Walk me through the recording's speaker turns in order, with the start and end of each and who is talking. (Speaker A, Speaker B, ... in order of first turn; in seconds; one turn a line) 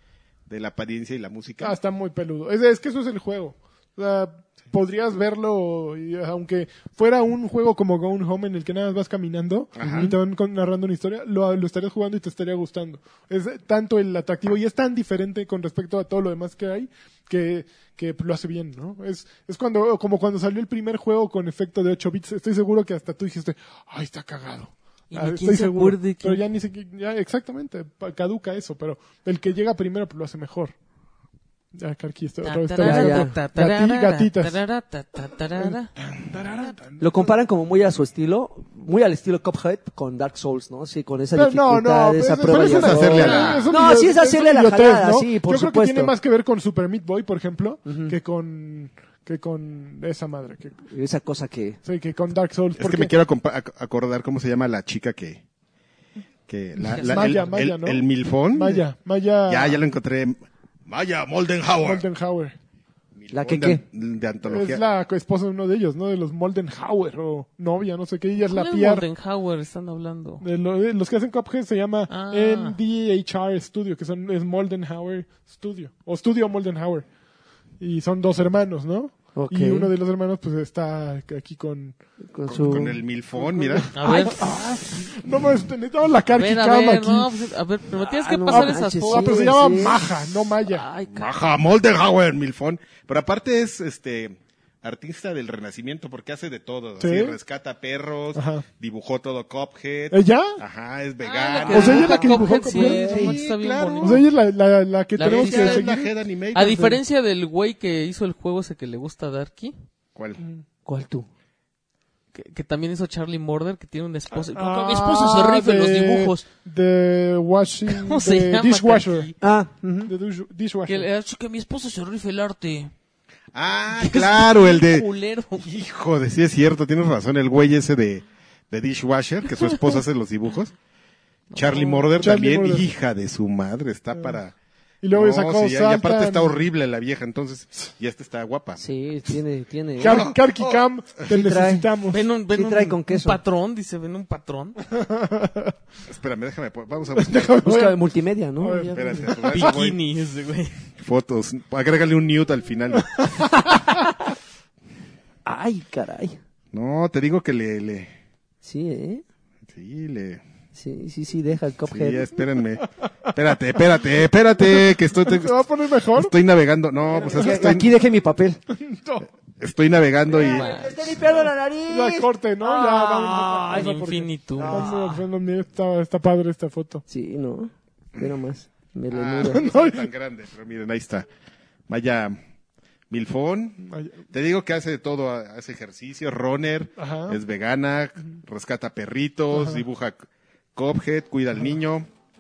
Speaker A: 0.5-1.8
Speaker B: 1.6-30.7
Speaker A: 9.8-10.1
Speaker C: 9.8-10.2
Speaker D: 25.1-26.4
Speaker B: 31.8-34.6
Speaker D: 32.4-35.9
Speaker C: 32.8-33.3
Speaker B: 35.6-37.4
Speaker C: 37.0-46.1
Speaker B: 41.3-50.8
Speaker A: 42.5-43.8
Speaker D: 43.2-43.7
Speaker C: 47.9-48.2
Speaker C: 50.9-51.8
Speaker B: 51.9-53.1
Speaker A: 52.8-55.4
Speaker A: 56.5-58.8
Speaker D: 56.9-57.6
Speaker B: 56.9-59.8
Speaker A: 59.5-62.0
Speaker B: 61.8-62.5
Speaker A: 63.2-64.8
Speaker C: 63.3-63.8
Speaker B: 64.4-69.1
Speaker D: 68.5-70.4
Speaker B: 70.4-77.0
Speaker D: 72.1-72.8
Speaker B: 77.8-82.0
Speaker C: 79.4-79.9
Speaker C: 82.3-83.0
Speaker A: 82.5-83.9
Speaker B: 83.4-87.3
Speaker D: 83.9-84.5
Speaker D: 86.3-89.6
Speaker C: 88.0-90.0
Speaker B: 88.5-90.8
Speaker D: 90.6-91.3
Speaker A: 91.1-104.2
Speaker B: 97.0-97.4
Speaker B: 98.3-98.7
Speaker B: 100.1-100.6
Speaker D: 101.2-104.2
Speaker B: 101.7-103.3
Speaker C: 101.7-103.4
Speaker B: 104.0-106.1
Speaker D: 105.2-105.9
Speaker A: 105.2-107.0
Speaker D: 106.5-109.8
Speaker A: 110.2-110.4
Speaker C: 110.9-111.3
Speaker D: 112.3-116.5
Speaker B: 114.3-119.3
Speaker D: 117.9-119.3
Speaker C: 119.4-120.1
Speaker B: 120.1-121.1
Speaker D: 120.9-122.9
Speaker A: 123.5-130.8
Speaker D: 124.0-125.7
Speaker D: 131.5-132.1
Speaker A: 131.5-134.5
Speaker B: 132.2-132.9
Speaker B: 135.0-136.7
Speaker A: 135.1-138.8
Speaker C: 138.8-140.3
Speaker B: 140.0-142.2
Speaker A: 140.0-140.8
Speaker C: 141.3-141.9
Speaker D: 142.1-144.8
Speaker C: 142.5-143.4
Speaker B: 144.9-145.7
Speaker A: 146.1-147.7
Speaker B: 147.2-148.0
Speaker C: 147.6-149.4
Speaker B: 148.6-149.5
Speaker A: 148.9-150.0
Speaker D: 149.5-150.7
Speaker A: 151.0-153.3
Speaker C: 153.6-154.2
Speaker C: 155.4-156.4
Speaker A: 156.7-158.1
Speaker C: 158.6-159.2
Speaker A: 159.7-160.4
Speaker C: 160.8-162.3
Speaker A: 161.9-167.9
Speaker B: 164.7-166.3
Speaker C: 167.2-168.6
Speaker B: 167.2-167.8
Speaker B: 168.7-169.3
Speaker A: 169.6-170.8
Speaker C: 170.3-173.9
Speaker D: 170.3-171.0
Speaker B: 171.9-177.0
Speaker D: 173.7-175.1
Speaker C: 174.6-175.2
Speaker C: 177.1-179.6
Speaker A: 179.1-181.3
Speaker B: 179.4-180.1
Speaker A: 181.9-182.4
Speaker A: 183.1-192.1
Speaker B: 183.8-184.2
Speaker B: 187.0-187.4
Speaker B: 189.5-189.8